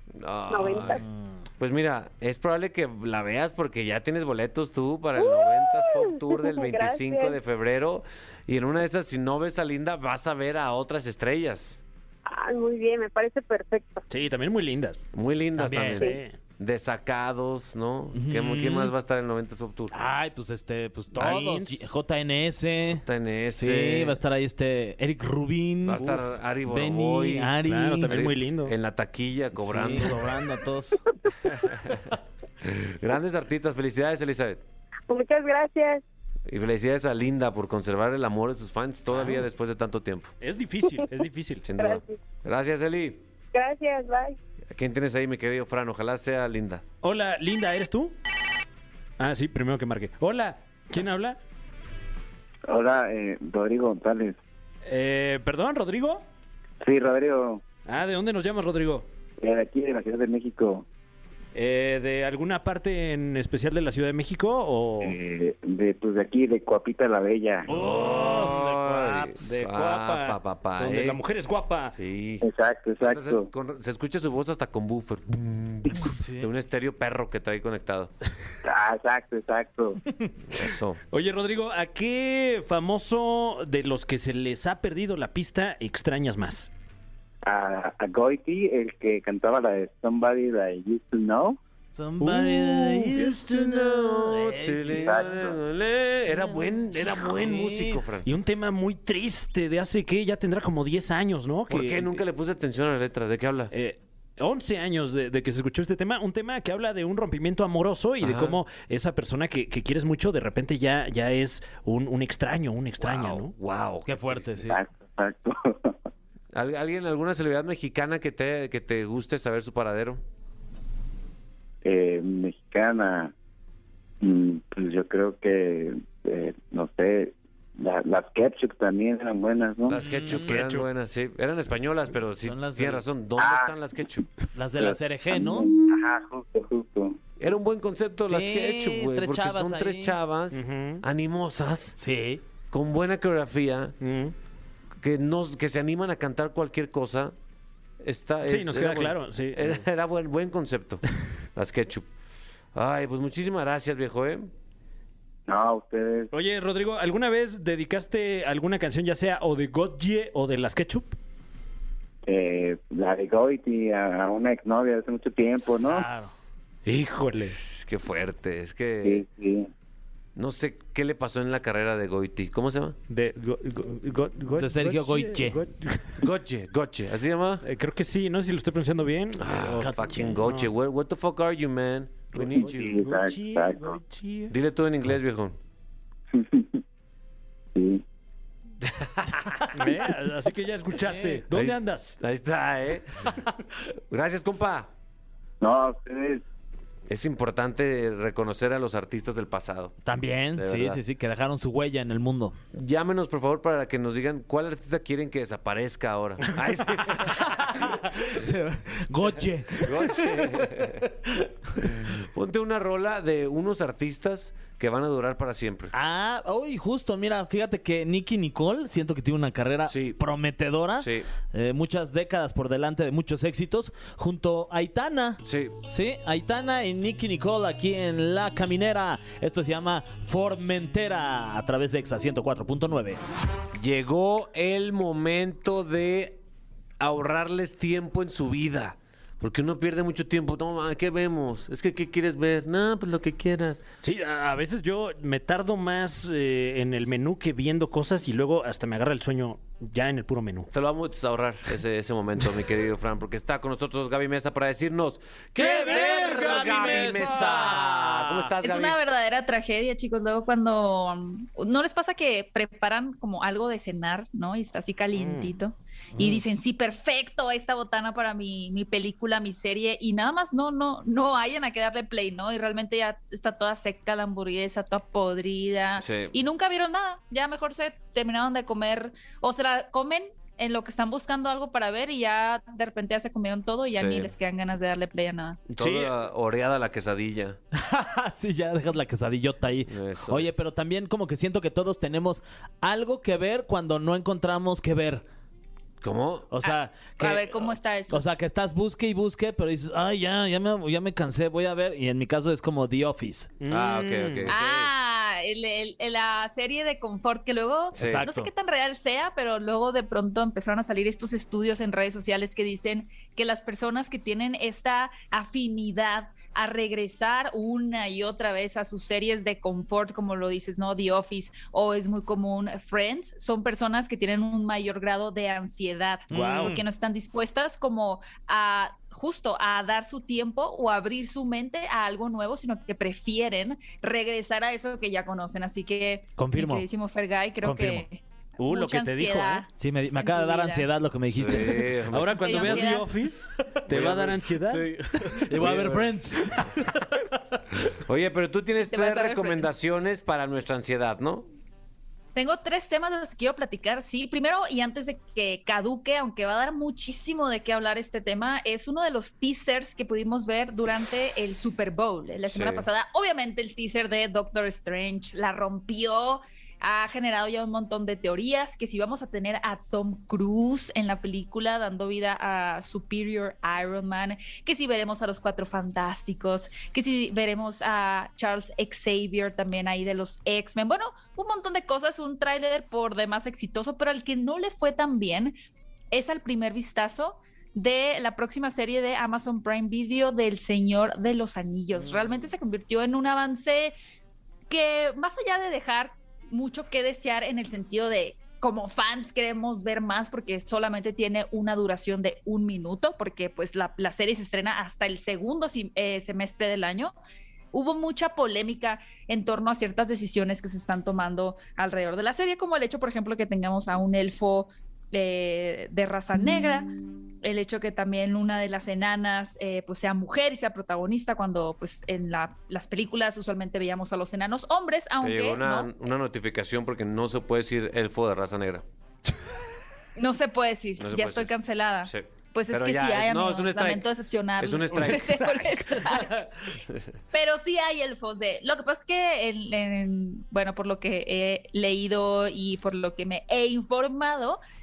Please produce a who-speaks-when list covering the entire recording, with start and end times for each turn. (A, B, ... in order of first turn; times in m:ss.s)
0:00.2-0:01.0 A
0:00.5-0:01.0 B
0:00.9-0:01.4 C
0:01.6-0:11.8 A
0:05.2-0:07.4 B
0:12.3-0:14.0 B
0:14.1-0:15.0 D
0:15.1-0:19.9 A
0:15.6-0:16.4 D
0:18.1-0:18.9 C
0:19.9-0:23.0 C
0:21.1-0:21.8 D
0:23.0-0:24.2 A
0:23.6-0:28.2 C
0:25.8-0:27.6 A
0:27.6-0:28.8 D
0:28.1-0:30.2 A
0:29.5-0:31.0 C
0:32.6-0:34.6 A
0:35.1-0:36.0 B
0:36.5-0:40.3 A
0:40.4-0:41.7 D
0:41.6-0:43.2 A
0:41.8-0:42.2 B
0:43.5-0:44.4 B
0:44.7-0:46.8 A
0:47.0-0:48.1 D
0:49.2-0:51.4 D
0:52.7-0:54.4 E
0:54.9-0:56.2 D
0:56.8-0:57.6 E
0:57.9-0:59.1 D
0:59.4-1:00.8 E
1:01.6-1:05.2 D
1:05.0-1:07.7 E
1:07.7-1:11.9 D
1:07.8-1:11.2 A
1:12.0-1:12.5 A
1:12.4-1:13.5 E
1:13.0-1:18.1 A
1:16.2-1:16.5 C
1:18.6-1:20.0 E
1:20.6-1:21.0 A
1:21.1-1:26.7 D
1:27.4-1:31.6 E
1:31.9-1:35.3 C
1:32.2-1:33.1 D
1:33.0-1:38.3 A
1:34.9-1:35.6 E
1:36.3-1:38.0 C
1:38.2-1:42.2 D
1:41.7-1:43.7 A
1:43.7-1:53.5 D
1:48.2-1:48.6 A
1:53.0-1:54.4 A
1:54.1-1:54.8 C
1:54.6-1:56.0 E
1:56.5-2:00.2 A
2:01.8-2:03.3 E
2:04.2-2:10.0 E
2:09.9-2:14.3 A
2:10.0-2:10.7 C
2:10.2-2:10.9 D
2:12.4-2:13.0 C
2:13.4-2:13.8 E
2:14.5-2:15.7 C
2:14.8-2:17.2 E
2:17.4-2:22.0 A
2:18.3-2:20.2 C
2:20.5-2:21.0 D
2:22.0-2:22.4 C
2:22.7-2:24.0 A
2:24.0-2:24.3 D
2:25.0-2:27.4 A
2:28.0-2:31.0 A
2:28.4-2:29.8 D
2:31.6-2:32.1 A
2:32.7-2:34.5 A
2:35.5-2:36.3 E
2:36.3-2:41.2 D
2:42.3-2:46.1 E
2:45.8-2:46.3 C
2:46.8-2:47.6 D
2:47.6-2:49.2 A
2:49.0-2:49.7 E
2:50.4-2:53.0 A
2:53.1-2:56.2 D
2:54.6-2:55.6 C
2:56.2-2:57.6 A
2:57.6-3:00.7 D
2:59.4-3:03.0 A
2:59.8-3:00.4 C
3:02.3-3:04.5 D
3:02.6-3:04.0 E
3:04.5-3:05.6 A
3:06.3-3:06.8 E
3:07.8-3:08.0 E
3:08.9-3:09.7 A
3:09.7-3:12.2 D
3:10.9-3:11.4 C
3:11.5-3:13.3 A
3:14.1-3:14.9 A
3:15.6-3:16.4 E
3:17.1-3:20.0 A
3:20.0-3:22.6 C
3:20.6-3:21.0 A
3:22.7-3:27.8 A
3:27.2-3:30.4 C
3:29.8-3:31.1 A
3:31.8-3:35.9 A
3:35.9-3:53.2 C
3:39.9-3:40.2 A
3:41.0-3:41.3 A
3:45.4-3:45.8 A
3:53.8-3:56.4 A
3:57.0-4:03.8 A
4:04.0-4:10.7 D
4:10.7-4:19.0 A
4:15.6-4:18.5 C
4:15.7-4:17.7 D
4:18.6-4:45.6 F
4:25.2-4:25.6 D
4:26.2-4:26.4 C
4:36.0-4:36.3 A
4:43.9-4:44.3 A
4:45.7-4:47.6 A
4:45.8-4:46.1 D
4:47.7-4:55.2 C
4:49.9-4:50.5 A
4:56.0-4:56.5 A
4:56.5-4:57.5 C
4:56.7-4:58.2 F
4:58.1-5:03.6 C
5:03.6-5:04.5 D
5:03.7-5:04.9 A
5:04.5-5:40.9 F
5:08.0-5:08.2 A
5:08.0-5:08.5 C
5:26.3-5:26.8 C
5:26.3-5:26.8 D
5:36.4-5:36.9 C
5:37.6-5:38.1 C
5:38.6-5:39.6 D
5:39.8-5:42.1 C
5:41.3-5:42.9 A
5:42.1-5:46.0 D
5:42.4-5:43.1 F
5:43.9-5:44.4 A
5:44.7-5:47.0 C
5:45.6-5:46.0 A
5:48.1-5:51.5 A
5:48.8-5:49.8 F
5:52.4-6:25.6 F
6:02.5-6:02.9 A
6:26.1-6:34.0 F
6:34.7-6:47.2 F
6:47.7-6:56.9 F
6:57.4-7:05.9 F
7:05.2-7:08.8 A
7:10.2-7:16.4 F
7:11.0-7:11.5 A
7:12.0-7:14.1 A
7:14.6-7:15.6 A
7:17.3-7:24.6 F